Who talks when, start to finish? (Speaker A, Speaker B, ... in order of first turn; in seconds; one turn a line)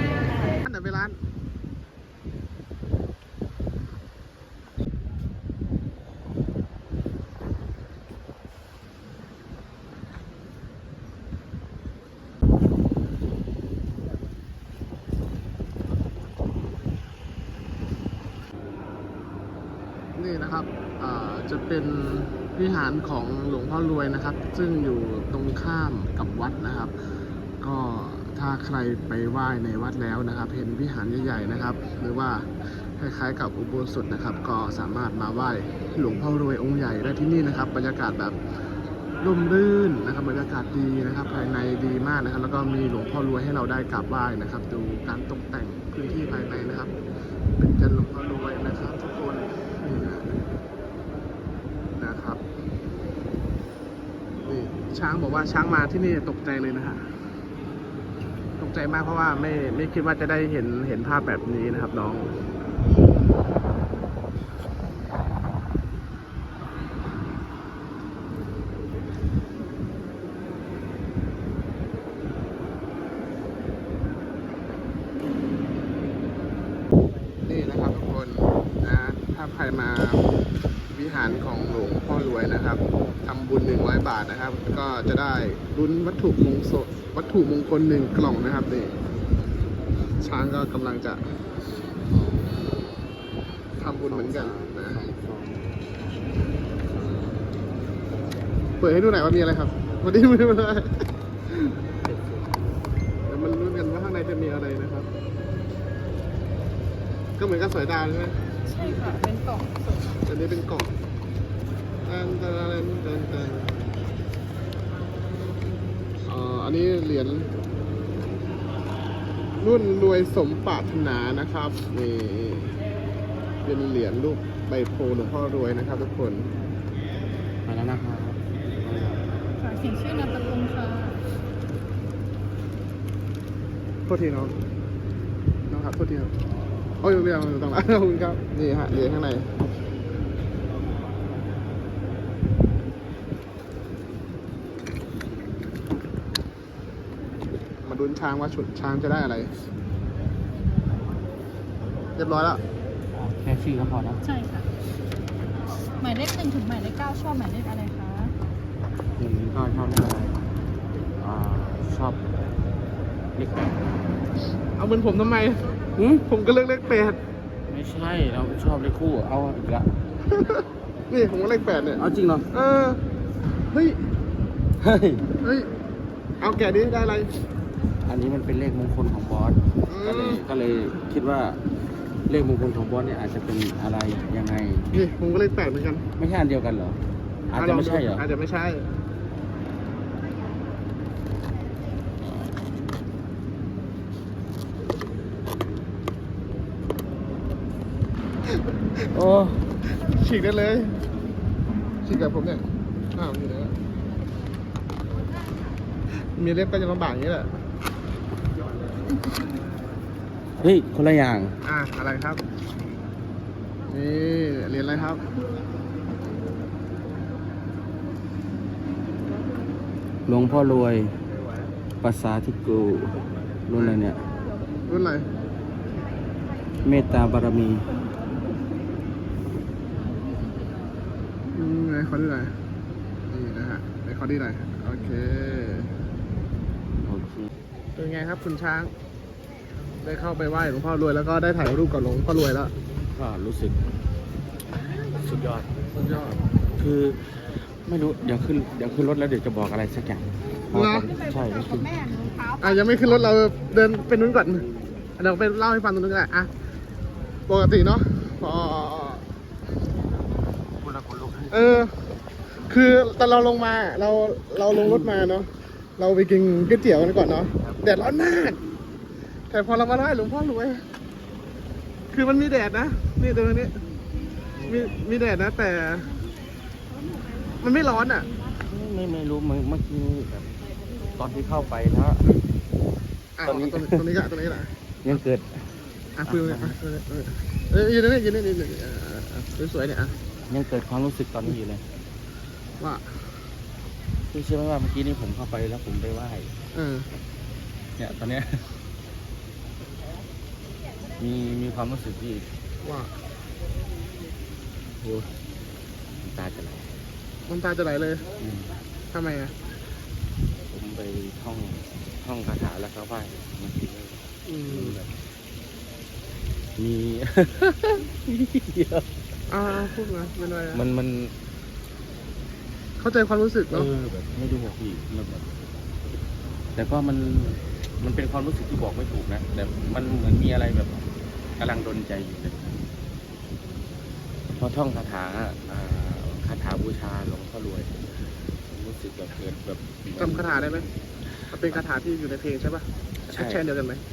Speaker A: 0.6-1.2
Speaker A: 20.2-26.9
Speaker A: 27.6-38.4
Speaker A: 39.2-46.9
Speaker A: 47.6-50.4
Speaker A: 52.0-52.4
Speaker A: 54.5-57.0
Speaker A: 58.6-62.3
Speaker A: 77.5-80.2
Speaker A: 80.9-89.0
Speaker A: 90.2-91.2
Speaker B: 92.1-92.6
Speaker A: 93.8-95.0
Speaker B: 94.0-95.7
Speaker B: 97.0-97.2
Speaker A: 98.8-100.9
Speaker B: 102.0-102.8
Speaker A: 103.3-105.1
Speaker A: 107.4-108.4
Speaker C: 108.7-110.1
Speaker A: 110.2-110.9
Speaker A: 112.0-113.9
Speaker A: 116.3-117.5
Speaker A: 119.6-122.8
Speaker A: 123.6-126.5
Speaker B: 127.7-129.2
Speaker C: 129.6-131.2
Speaker A: 134.1-134.6
Speaker A: 135.7-136.3
Speaker A: 137.0-139.5
Speaker A: 147.8-149.5
Speaker A: 152.2-152.6
Speaker B: 153.1-154.2
Speaker C: 154.2-154.7
Speaker C: 155.8-158.3
Speaker B: 159.2-160.4
Speaker B: 161.2-162.3
Speaker B: 163.3-163.8
Speaker A: 164.8-165.6
Speaker B: 166.0-166.2
Speaker A: 166.3-167.2
Speaker B: 167.7-169.9
Speaker A: 170.3-173.0
Speaker B: 172.0-172.5
Speaker A: 173.7-174.0
Speaker B: 174.8-175.3
Speaker A: 175.4-175.7
Speaker A: 176.4-177.3
Speaker B: 178.0-181.6
Speaker A: 179.9-180.4
Speaker B: 182.3-184.9
Speaker A: 184.9-186.1
Speaker B: 186.2-188.2
Speaker A: 187.6-188.9
Speaker A: 199.0-200.9
Speaker A: 202.0-202.6
Speaker A: 203.2-203.8
Speaker A: 206.2-207.5
Speaker B: 210.6-211.6
Speaker A: 211.6-212.4
Speaker A: 213.9-215.2
Speaker B: 220.3-221.1
Speaker B: 222.0-224.2
Speaker A: 224.9-225.3
Speaker B: 226.8-227.9
Speaker A: 231.5-232.5
Speaker A: 233.3-235.9
Speaker B: 237.0-237.5
Speaker A: 238.0-238.9
Speaker A: 240.0-242.7
Speaker B: 243.1-243.8
Speaker B: 245.2-245.7
Speaker A: 246.0-246.4
Speaker B: 246.8-247.2
Speaker B: 247.8-252.1
Speaker A: 250.7-251.2
Speaker C: 252.1-252.6
Speaker A: 252.6-254.7
Speaker B: 254.5-255.0
Speaker A: 255.2-256.5
Speaker A: 257.5-259.2
Speaker B: 260.8-261.7
Speaker A: 261.5-261.9
Speaker A: 262.7-268.6
Speaker B: 264.7-265.1
Speaker B: 267.5-267.9
Speaker A: 269.5-270.8
Speaker A: 272.1-273.7
Speaker B: 274.6-274.9
Speaker A: 274.7-276.1
Speaker A: 277.6-278.3
Speaker B: 278.6-280.5
Speaker B: 281.2-282.2
Speaker A: 283.4-284.7
Speaker B: 283.4-284.0
Speaker B: 285.0-285.7
Speaker A: 286.2-290.1
Speaker B: 286.3-286.8
Speaker B: 290.5-291.8
Speaker A: 292.8-293.1
Speaker B: 294.3-296.5
Speaker A: 296.7-297.1
Speaker B: 298.0-298.7
Speaker B: 301.2-302.5
Speaker A: 302.8-303.1
Speaker B: 305.0-305.3
Speaker B: 306.2-306.9
Speaker A: 307.5-308.2
Speaker B: 308.4-308.8
Speaker A: 309.1-309.6
Speaker B: 310.7-315.1
Speaker A: 314.5-315.0
Speaker B: 316.8-319.1
Speaker A: 319.5-320.8
Speaker B: 320.7-321.3
Speaker A: 323.0-323.9
Speaker B: 323.7-325.5
Speaker B: 326.8-331.1
Speaker B: 331.6-332.8
Speaker B: 334.6-337.9
Speaker B: 338.7-340.9
Speaker A: 340.2-340.9
Speaker B: 341.5-341.8
Speaker A: 341.5-344.0
Speaker B: 343.3-343.6